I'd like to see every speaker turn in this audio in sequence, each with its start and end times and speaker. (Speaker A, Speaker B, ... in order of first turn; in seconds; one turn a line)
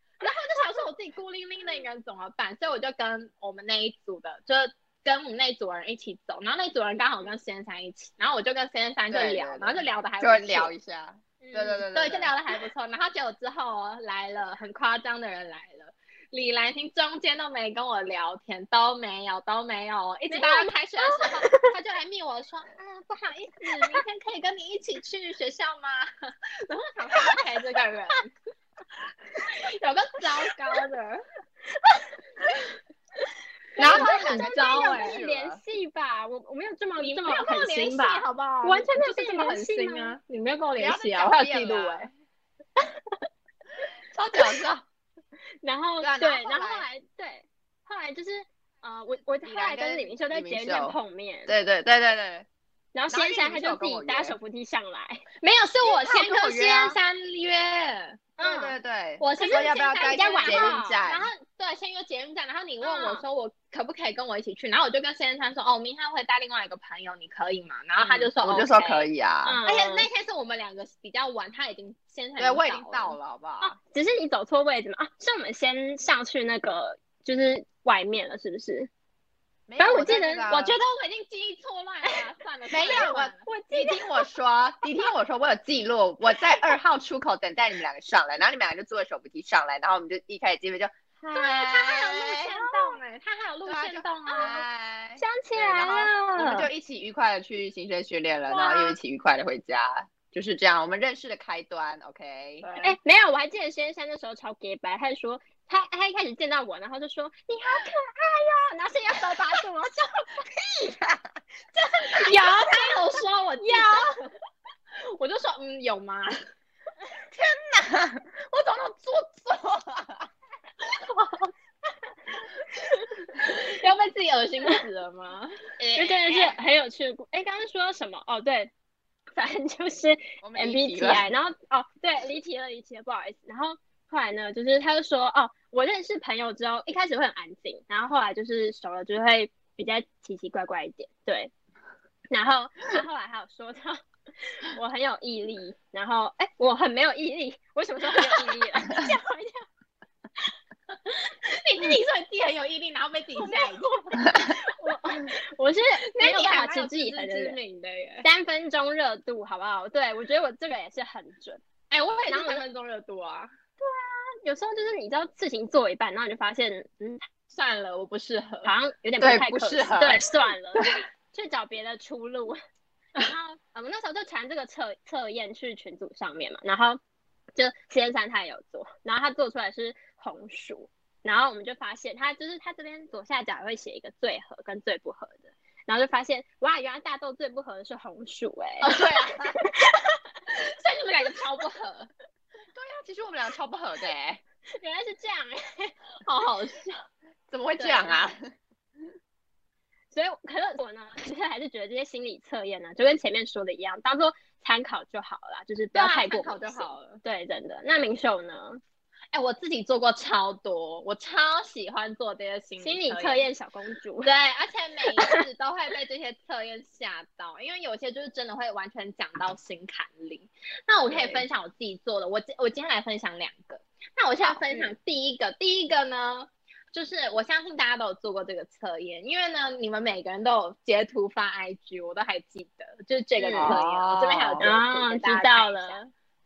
Speaker A: 0.2-10.7
Speaker B: 9.1-12.3
Speaker C: 11.4-11.8
Speaker A: 11.9-28.3
Speaker C: 20.3-21.7
Speaker C: 23.7-24.0
Speaker A: 29.4-31.2
Speaker C: 31.8-32.1
Speaker C: 33.8-40.2
Speaker A: 33.8-35.2
Speaker B: 33.8-35.6
Speaker A: 37.0-42.1
Speaker B: 40.8-42.1
Speaker B: 44.1-44.8
Speaker C: 45.6-51.5
Speaker B: 46.0-46.9
Speaker B: 49.4-51.0
Speaker B: 51.5-52.5
Speaker C: 52.9-55.2
Speaker B: 53.1-54.4
Speaker A: 55.4-58.6
Speaker B: 55.8-57.0
Speaker C: 58.4-58.7
Speaker B: 58.4-61.3
Speaker A: 59.2-69.1
Speaker C: 59.4-61.0
Speaker C: 62.8-63.2
Speaker B: 68.0-69.6
Speaker C: 69.4-70.1
Speaker A: 69.6-73.2
Speaker B: 72.4-73.8
Speaker C: 73.6-78.9
Speaker B: 79.7-80.8
Speaker C: 79.8-80.7
Speaker A: 80.5-83.5
Speaker B: 82.7-92.5
Speaker C: 82.8-84.2
Speaker A: 91.3-94.6
Speaker C: 92.6-93.0
Speaker B: 93.7-102.7
Speaker C: 94.3-94.5
Speaker C: 95.2-96.7
Speaker C: 98.5-98.9
Speaker A: 98.6-98.9
Speaker A: 102.6-103.0
Speaker C: 102.8-110.4
Speaker B: 110.6-111.3
Speaker C: 111.9-112.9
Speaker A: 112.1-114.1
Speaker C: 113.6-114.0
Speaker A: 115.0-116.4
Speaker B: 117.3-120.3
Speaker A: 121.0-121.5
Speaker C: 122.8-123.0
Speaker A: 123.4-125.5
Speaker B: 125.8-126.5
Speaker C: 126.0-128.7
Speaker C: 129.3-141.5
Speaker B: 130.4-131.2
Speaker C: 142.3-144.0
Speaker C: 144.6-149.6
Speaker A: 151.4-154.2
Speaker C: 153.3-157.6
Speaker A: 156.2-158.2
Speaker C: 158.2-161.6
Speaker A: 161.9-163.5
Speaker C: 162.3-162.6
Speaker C: 163.8-167.2
Speaker A: 167.5-168.7
Speaker C: 168.6-172.6
Speaker B: 169.2-170.2
Speaker C: 173.2-177.0
Speaker C: 177.5-189.0
Speaker B: 188.8-189.6
Speaker C: 189.6-190.2
Speaker A: 190.6-192.1
Speaker B: 192.7-194.4
Speaker C: 194.8-195.9
Speaker A: 196.2-197.0
Speaker B: 197.5-198.5
Speaker C: 197.8-198.2
Speaker C: 200.1-208.8
Speaker A: 205.9-207.2
Speaker A: 209.3-213.4
Speaker C: 212.8-214.3
Speaker A: 214.2-236.0
Speaker C: 221.1-221.4
Speaker B: 221.2-221.4
Speaker C: 233.4-233.8
Speaker B: 233.5-234.7
Speaker C: 234.6-236.1